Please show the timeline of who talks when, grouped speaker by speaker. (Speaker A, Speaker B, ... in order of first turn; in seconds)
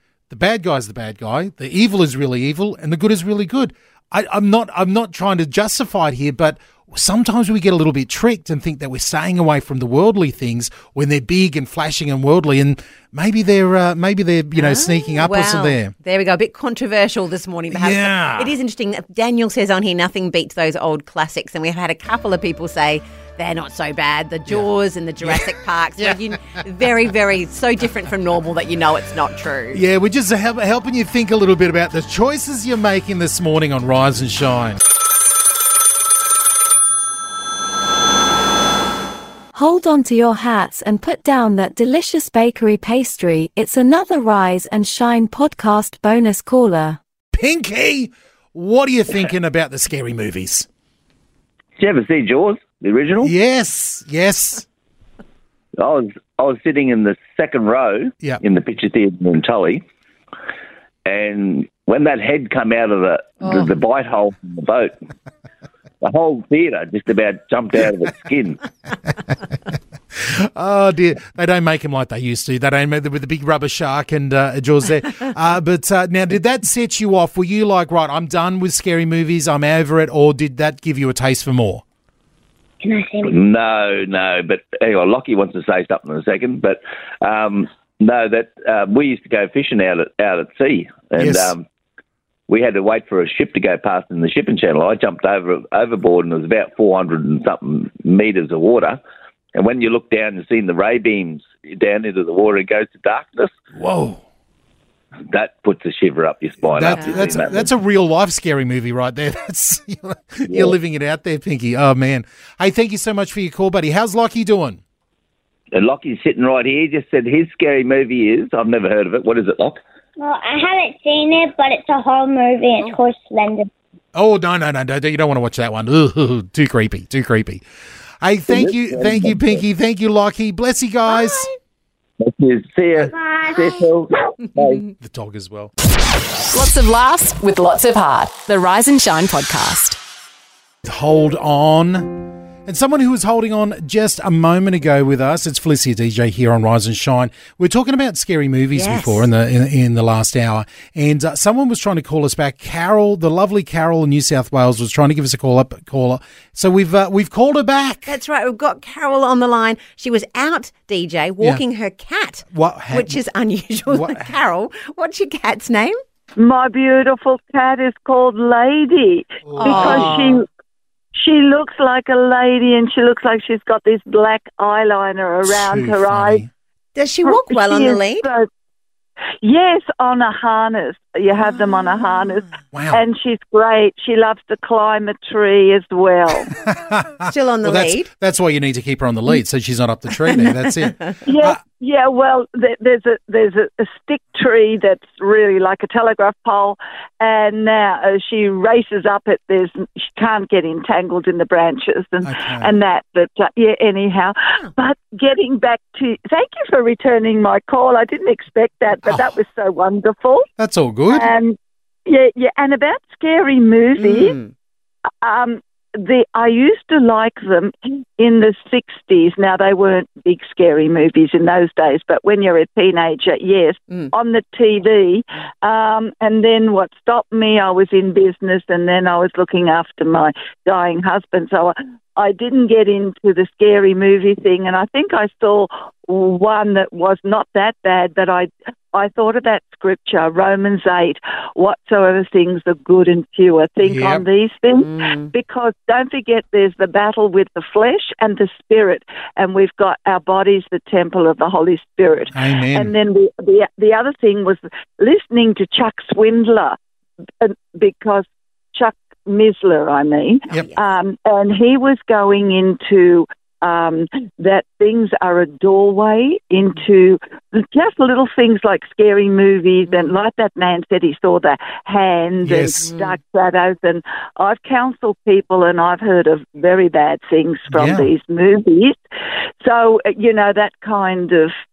Speaker A: 0.3-15.9, 17.7-18.5, 25.2-26.2, 29.7-34.8, 47.3-50.7, 53.2-54.6, 70.1-81.8, 91.2-91.5, 103.7-104.2, 106.7-114.8, 124.1-127.6, 128.2-131.5, 135.0-135.7, 140.8-158.1, 162.5-163.2, 163.9-164.4, 169.5-170.4, 175.4-176.5, 182.7-183.0, 186.5-191.6, 202.2-202.8, 209.1-209.4, 210.6-211.3, 243.8-244.2, 252.3-252.9, 272.4-272.9, 277.7-278.1
Speaker B: 14.6-29.8, 106.9-107.6, 131.1-131.5, 148.8-149.3, 158.1-166.0, 169.6-170.4, 176.9-178.3, 181.4-182.4, 187.3-188.1, 190.3-191.2, 214.0-214.5, 244.8-245.3, 260.5-260.9, 269.9-270.2, 272.9-273.2
Speaker C: 39.5-47.0
Speaker D: 51.8-53.3, 55.8-59.8, 61.1-64.9, 66.0-68.6, 83.2-91.6, 92.5-99.0, 99.5-103.5, 105.3-107.7, 115.7-119.8, 128.5-129.6, 132.2-134.9
Speaker E: 82.8-83.4, 120.2-123.7, 133.1-133.9
Speaker F: 136.5-140.0
Speaker G: 166.4-170.5, 171.1-176.4, 177.2-178.5, 179.4-186.5, 191.3-210.5, 211.1-214.4, 215.2-256.8, 257.4-279.0, 279.6-281.6